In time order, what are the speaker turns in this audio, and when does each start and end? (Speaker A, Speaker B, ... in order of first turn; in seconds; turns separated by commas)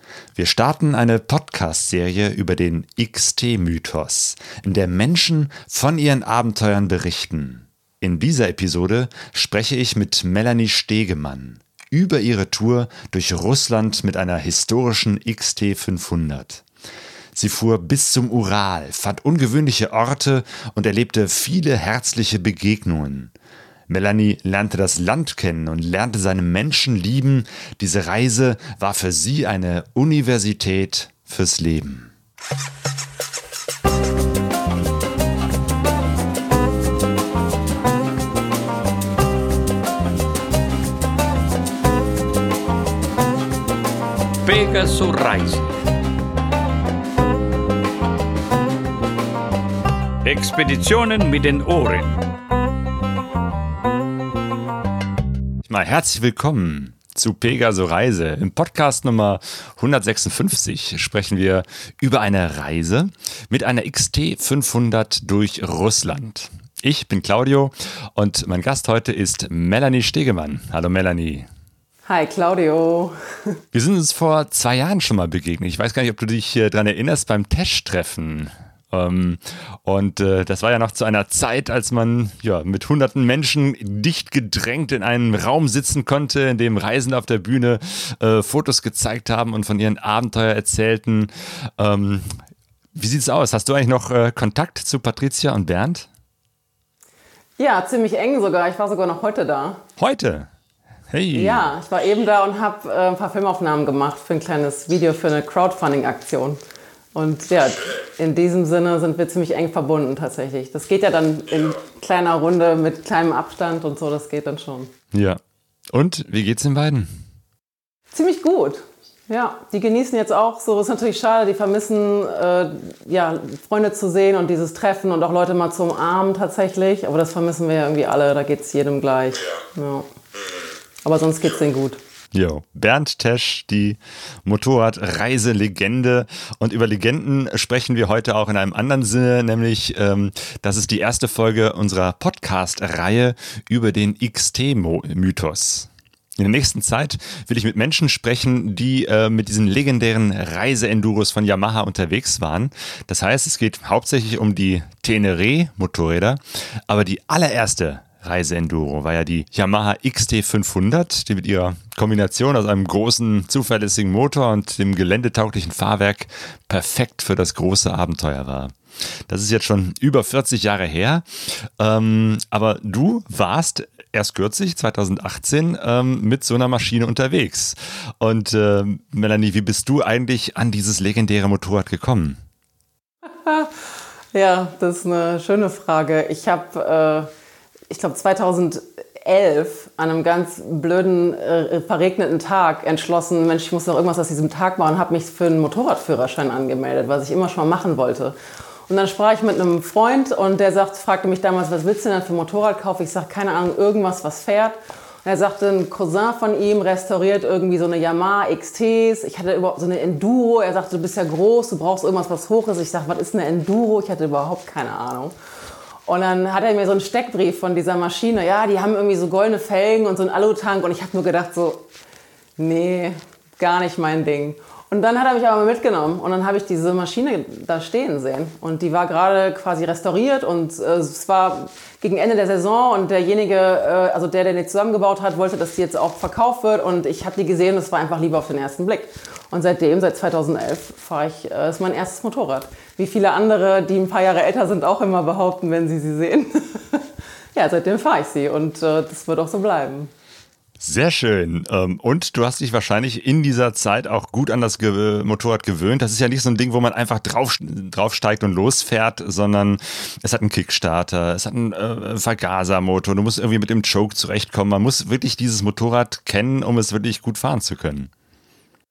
Speaker A: 0.3-16.6, Speaker A: 17.3-23.3, Speaker A: 23.9-32.1, Speaker B: 44.4-45.6, Speaker B: 50.2-52.2, Speaker A: 55.6-71.5, Speaker C: 72.0-73.6, Speaker A: 73.7-92.4, Speaker A: 92.9-96.1, Speaker C: 97.6-99.8, Speaker A: 100.0-100.5, Speaker A: 101.1-101.7, Speaker C: 101.3-106.6, Speaker C: 107.1-114.9, Speaker A: 115.1-115.4, Speaker A: 115.9-117.2, Speaker C: 118.1-130.1, Speaker C: 131.0-132.0, Speaker A: 132.3-168.8, Speaker A: 169.3-182.4, Speaker C: 183.4-183.8, Speaker C: 184.3-187.3, Speaker C: 187.9-198.3, Speaker C: 198.9-215.3, Speaker C: 216.1-221.8, Speaker C: 222.6-250.1, Speaker A: 250.8-268.1